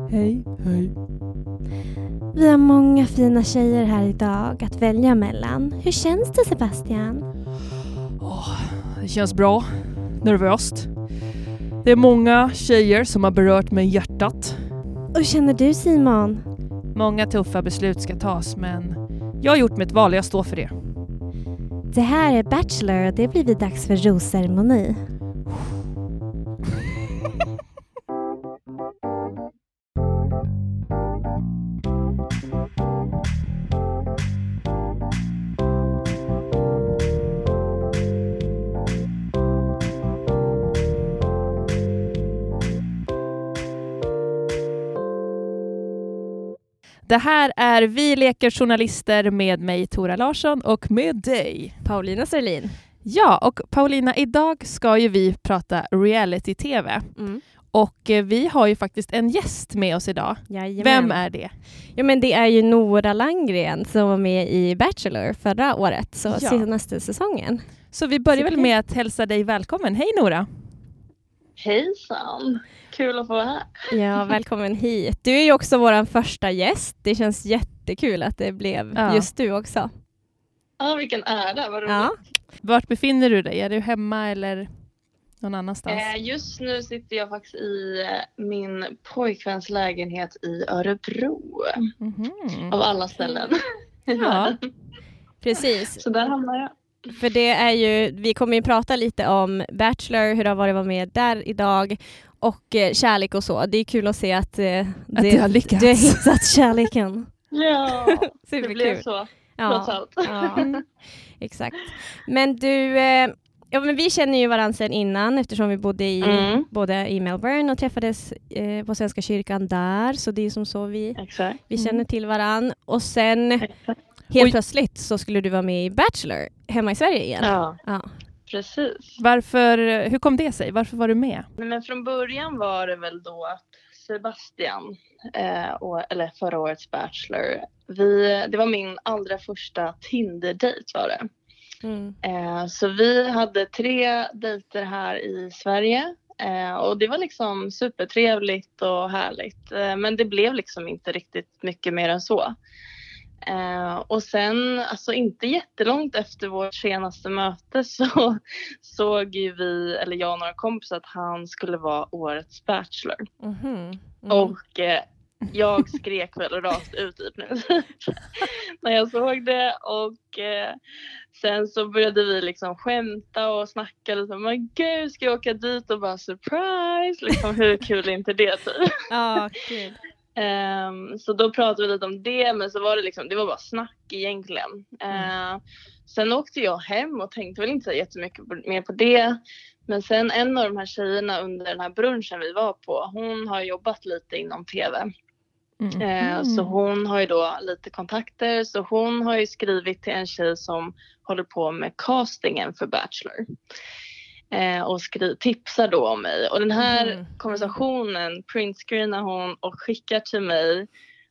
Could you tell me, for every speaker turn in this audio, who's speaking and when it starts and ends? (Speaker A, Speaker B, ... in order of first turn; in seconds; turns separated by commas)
Speaker A: 0.1-1.0, Speaker B: 2.3-7.3, Speaker A: 8.2-11.2, Speaker A: 11.8-14.8, Speaker B: 15.1-16.5, Speaker A: 16.9-21.1, Speaker B: 21.9-25.1, Speaker A: 47.0-51.8, Speaker B: 51.8-52.8, Speaker A: 53.0-61.6, Speaker B: 57.1-57.4, Speaker B: 60.5-67.8, Speaker A: 66.3-66.7, Speaker A: 67.9-70.7, Speaker B: 68.3-68.7, Speaker C: 71.6-73.9, Speaker B: 73.9-79.9, Speaker A: 79.0-79.3, Speaker C: 80.8-82.1, Speaker B: 81.9-82.2, Speaker A: 82.6-84.7, Speaker A: 85.4-86.1, Speaker C: 85.9-91.9, Speaker A: 92.0-92.8, Speaker C: 92.7-93.6, Speaker C: 94.1-94.6, Speaker A: 94.2-94.6, Speaker B: 95.4-96.0, Speaker C: 96.0-96.7, Speaker B: 97.1-107.3, Speaker A: 105.2-106.3, Speaker C: 107.5-110.8, Speaker B: 108.0-109.0, Speaker B: 109.6-110.7, Speaker A: 110.6-110.8, Speaker B: 111.4-123.7, Speaker C: 116.2-116.7, Speaker C: 121.2-121.6, Speaker A: 121.8-122.0, Speaker C: 123.6-123.9, Speaker B: 124.3-128.1, Speaker C: 127.4-127.8, Speaker C: 128.5-129.2, Speaker A: 129.2-131.5, Speaker C: 131.6-141.3, Speaker B: 141.8-142.2, Speaker C: 142.2-152.6, Speaker C: 153.4-163.3, Speaker B: 163.4-164.5, Speaker C: 164.3-170.8, Speaker C: 171.3-178.9, Speaker B: 179.1-180.0, Speaker C: 180.4-195.1, Speaker A: 195.8-196.8, Speaker C: 196.0-203.4, Speaker C: 204.5-210.9, Speaker B: 206.8-207.8